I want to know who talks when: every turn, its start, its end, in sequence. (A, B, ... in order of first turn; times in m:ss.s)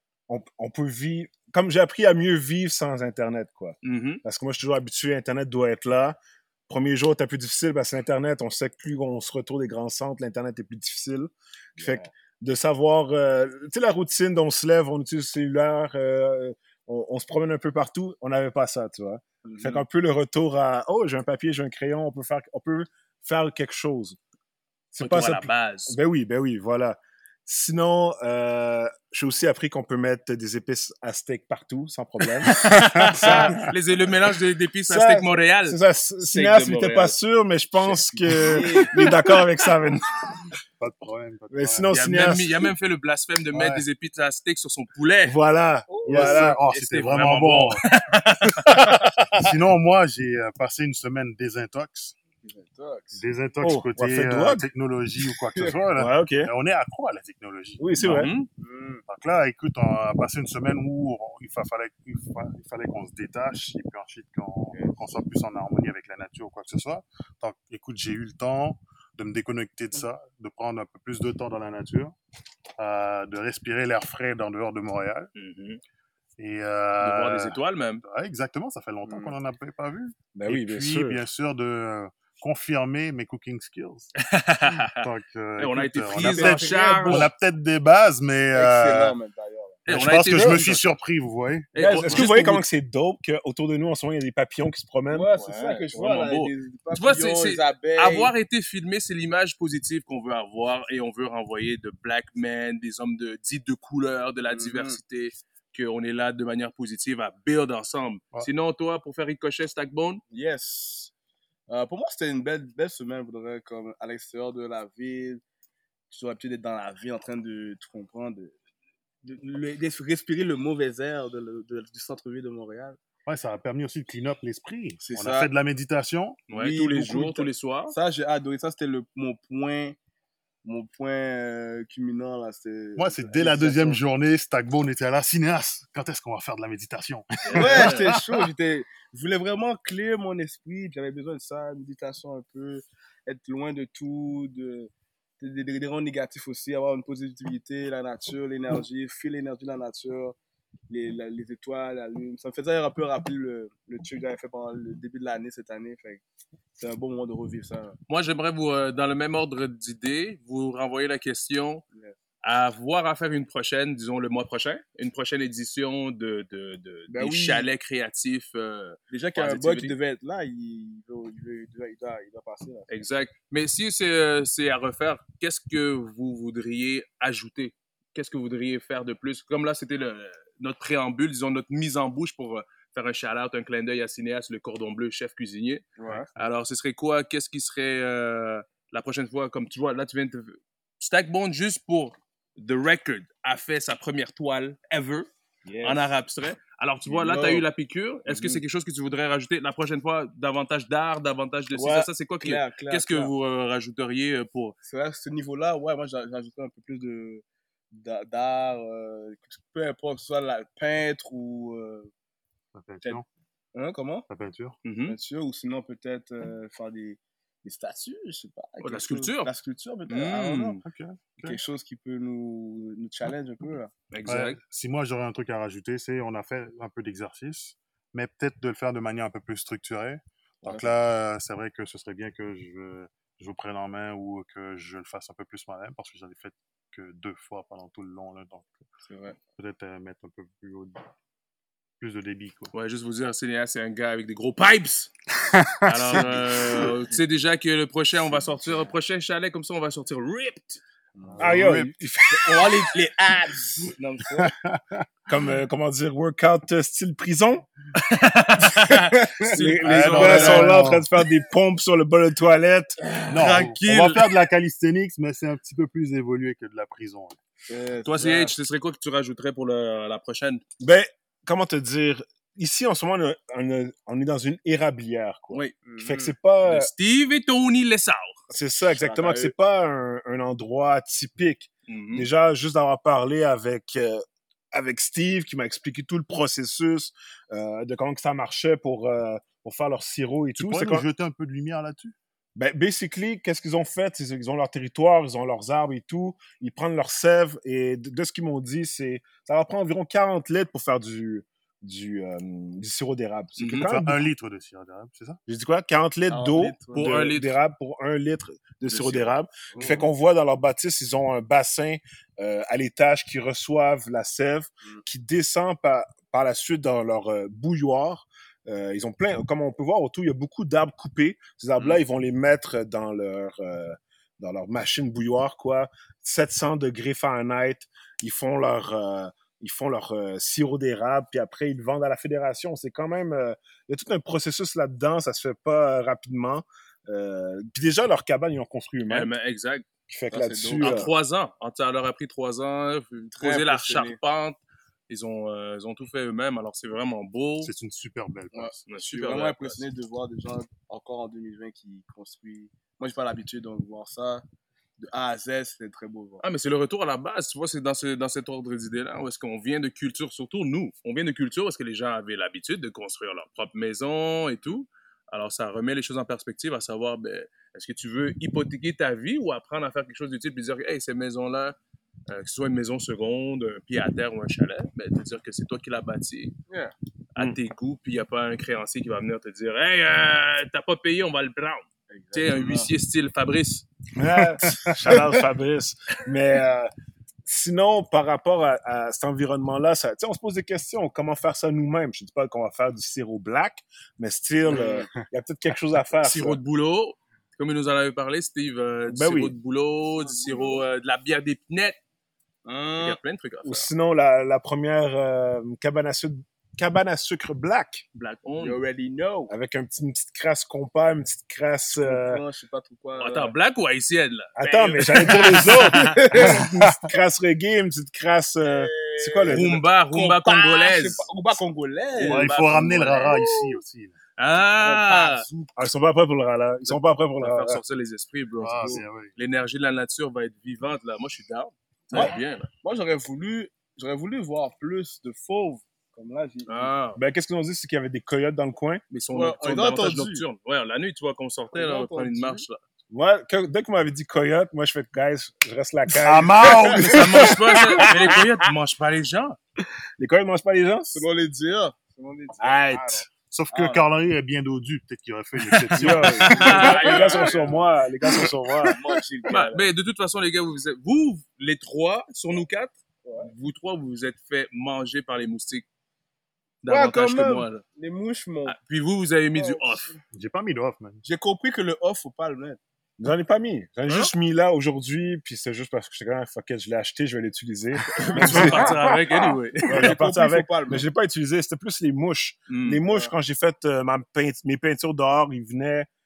0:00.3-0:24.2 A
0:03.8-0:04.2 B
0:11.8-0:12.1 C
0:19.4-0:19.8 C
0:24.9-0:33.7 A
0:25.0-0:26.0 B
0:32.4-0:35.8 B
0:34.9-0:40.0 A
0:36.3-0:37.1 B
0:38.3-0:39.4 C
0:40.8-0:42.6 D
0:41.5-0:42.5 A
0:41.9-0:45.4 B
0:43.5-0:43.8 D
0:45.2-0:46.6 A
0:45.9-0:46.4 C
0:46.1-0:47.8 D
0:46.2-0:48.8 B
0:48.7-0:49.4 A
0:49.3-0:52.2 D
0:52.4-0:53.2 C
0:53.1-0:57.9 D
0:53.6-0:54.6 A
0:55.2-0:55.8 C
0:56.0-0:56.5 A
0:57.8-0:58.3 A
0:58.0-0:58.5 B
0:58.6-0:59.0 C
0:59.1-1:12.1 D
1:12.8-1:15.3 D
1:15.3-1:15.8 B
1:16.4-1:24.1 D
1:17.0-1:18.0 B
1:19.0-1:19.4 C
1:20.3-1:21.2 A
1:24.2-1:25.0 B
1:25.0-1:29.2 D
1:25.6-1:27.3 B
1:26.2-1:27.3 C
1:28.5-1:29.9 C
1:29.8-1:30.9 B
1:29.9-1:31.8 D
1:30.3-1:30.7 A
1:31.7-1:32.7 B
1:31.7-1:35.3 A
1:31.9-1:32.2 C
1:35.1-1:38.3 C
1:35.4-1:50.2 B
1:44.5-1:45.0 C
1:50.3-1:51.1 C
1:51.7-1:55.4 C
1:56.1-1:58.5 C
1:59.2-2:03.0 C
2:03.2-2:06.4 D
2:05.0-2:05.5 C
2:06.5-2:07.9 B
2:06.5-2:10.0 C
2:10.6-2:14.0 C
2:13.0-2:18.5 D
2:17.4-2:18.1 B
2:17.5-2:30.3 C
2:30.9-2:36.2 C
2:36.8-2:38.0 C
2:38.1-2:41.8 B
2:41.9-2:42.2 C
2:42.4-2:49.9 B
2:47.1-2:47.7 C
2:49.1-2:52.9 C
2:52.9-3:15.3 B
3:06.0-3:06.3 C
3:15.6-3:16.2 C
3:15.8-3:24.8 B
3:17.0-3:17.6 C
3:18.3-3:18.6 C
3:21.7-3:23.3 C
3:24.8-3:32.1 C
3:32.7-3:33.2 D
3:33.7-3:34.3 C
3:34.3-3:34.8 D
3:34.8-3:35.2 B
3:35.0-3:40.8 C
3:38.8-3:39.5 B
3:40.1-3:40.8 B
3:40.8-3:41.4 D
3:41.4-3:43.9 C
3:44.1-3:44.6 B
3:44.2-3:58.7 D
3:50.6-3:50.9 C
3:59.0-3:59.4 C
3:59.6-4:01.0 D
4:02.0-4:02.7 D
4:02.7-4:05.1 B
4:05.6-4:06.4 D
4:05.8-4:10.8 B
4:06.1-4:06.8 A
4:11.2-4:11.6 C
4:11.3-4:11.9 D
4:11.4-4:12.9 A
4:12.5-4:14.5 C
4:14.3-4:15.0 D
4:15.3-4:17.7 A
4:18.0-4:20.8 B
4:19.4-4:23.0 A
4:19.8-4:21.1 D
4:23.1-4:24.3 B
4:23.3-4:27.4 D
4:27.7-4:28.5 C
4:28.0-4:30.6 B
4:30.8-4:36.9 A
4:35.8-4:36.3 C
4:36.6-4:38.4 B
4:38.5-4:51.0 A
4:38.8-4:39.5 C
4:41.9-4:42.3 B
4:50.6-4:52.1 D
4:52.6-5:04.3 A
5:03.6-5:03.9 B
5:03.8-5:05.4 D
5:05.5-5:39.3 A
5:06.3-5:07.2 C
5:06.9-5:07.6 B
5:08.9-5:09.4 B
5:09.7-5:10.0 C
5:39.1-5:39.9 B
5:40.1-5:41.1 A
5:40.3-5:41.0 C
5:40.8-5:47.7 B
5:43.4-5:44.2 C
5:47.6-5:48.9 D
5:48.5-5:54.4 C
5:48.9-5:49.9 B
5:55.0-5:56.4 C
5:56.4-6:11.8 B
6:12.3-6:16.5 B
6:16.7-6:16.9 C
6:17.3-6:23.9 B
6:22.1-6:22.9 C
6:24.2-6:26.9 A
6:24.4-6:25.1 D
6:27.4-6:36.6 A
6:34.7-6:35.1 C
6:36.2-6:42.0 B
6:39.1-6:39.5 A
6:40.2-6:40.8 C
6:42.6-6:43.2 C
6:43.0-6:43.9 B
6:43.6-6:48.0 A
6:48.1-6:48.8 B
6:48.6-6:49.5 C
6:49.5-6:52.4 A
6:51.9-6:53.5 C
6:53.2-6:56.2 B
6:54.6-6:59.8 A
6:55.2-6:56.7 C
6:58.6-7:02.5 C
6:59.4-7:01.3 B
7:02.1-7:03.4 B
7:02.2-7:04.1 D
7:03.1-7:03.8 C
7:04.4-7:05.4 B
7:04.6-7:05.8 C
7:05.8-7:07.8 A
7:06.9-7:12.7 B
7:08.6-7:09.3 D
7:08.8-7:09.0 C
7:12.1-7:16.9 C
7:16.6-7:17.2 B
7:17.1-7:19.0 A
7:19.1-7:22.8 B
7:19.3-7:20.4 C
7:21.7-7:22.6 C
7:23.1-7:27.1 A
7:26.1-7:27.5 D
7:26.7-7:27.1 C
7:26.9-7:29.6 B
7:30.2-7:31.2 A
7:31.1-7:34.1 C
7:32.6-7:33.2 A
7:33.5-7:36.8 D
7:35.8-7:37.9 C
7:35.9-7:39.0 A
7:36.6-7:37.8 B
7:38.8-7:39.9 C
7:39.5-7:45.8 B
7:43.2-7:43.5 C
7:46.8-7:47.8 B
7:46.9-7:48.8 C
7:48.6-7:50.2 B
7:49.5-7:50.2 C
7:50.3-7:51.2 D
7:51.2-7:52.8 C
7:53.2-8:06.1 A
7:54.1-7:54.3 B
7:58.2-8:00.1 B
7:58.3-7:58.9 C
7:59.8-8:01.1 C
8:02.7-8:03.0 B